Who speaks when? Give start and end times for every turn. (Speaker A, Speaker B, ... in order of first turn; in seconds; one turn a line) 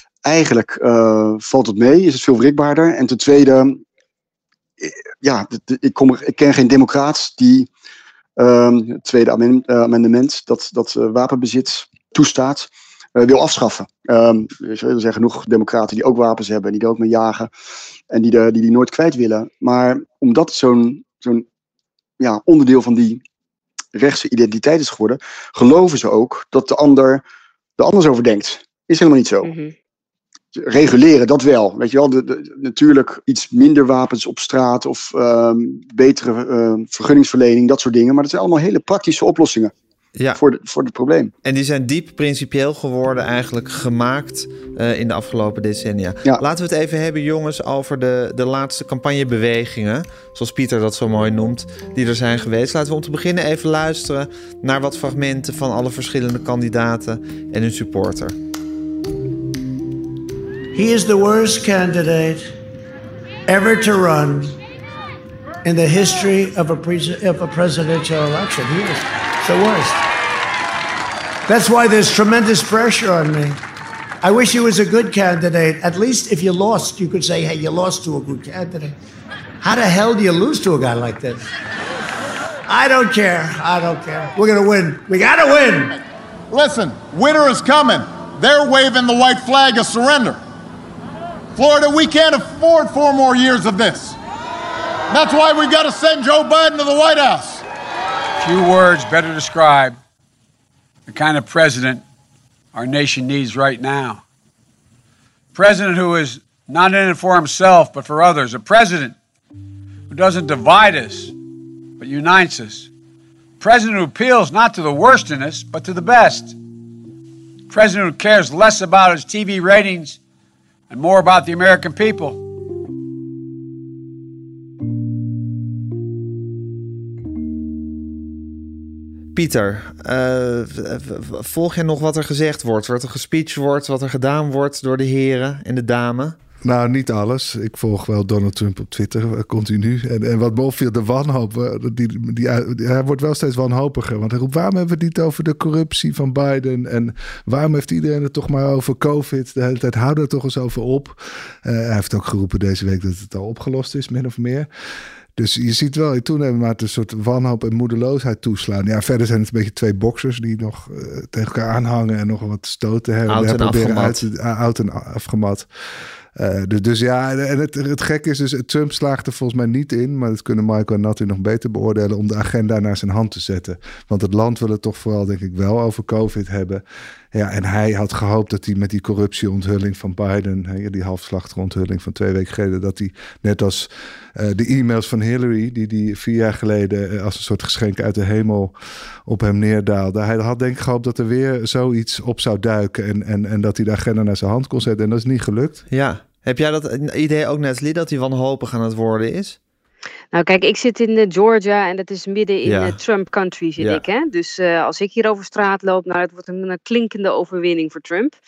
Speaker A: 0.2-3.8
Speaker A: 4.8-7.7
Speaker A: 8.4-17.5
Speaker A: 18.1-21.4
Speaker A: 22.2-23.2
Speaker A: 23.9-27.2
Speaker A: 27.8-29.5
Speaker B: 29.4-29.7
Speaker A: 30.5-39.7
Speaker A: 40.3-41.3
Speaker C: 41.4-58.4
Speaker D: 60.7-62.5
Speaker D: 63.5-64.6
Speaker D: 65.6-70.0
Speaker D: 71.5-73.6
Speaker D: 74.2-79.0
Speaker D: 79.6-81.5
Speaker D: 82.7-86.0
Speaker E: 86.5-90.4
Speaker E: 91.5-94.2
Speaker E: 95.1-97.6
Speaker F: 98.4-100.0
Speaker F: 101.1-102.0
Speaker F: 102.7-104.2
Speaker F: 105.5-109.1
Speaker F: 110.1-111.3
Speaker F: 112.0-112.9
Speaker F: 113.6-116.5
Speaker F: 117.7-120.2
Speaker F: 120.9-122.4
Speaker C: 129.3-136.4
Speaker G: 136.6-154.7
Speaker G: 155.3-165.7
Speaker C: 163.3-164.2
Speaker G: 166.3-176.8
Speaker G: 177.3-188.7
Speaker G: 189.2-195.8
Speaker C: 195.9-199.6
Speaker B: 200.3-208.3
Speaker C: 202.7-203.0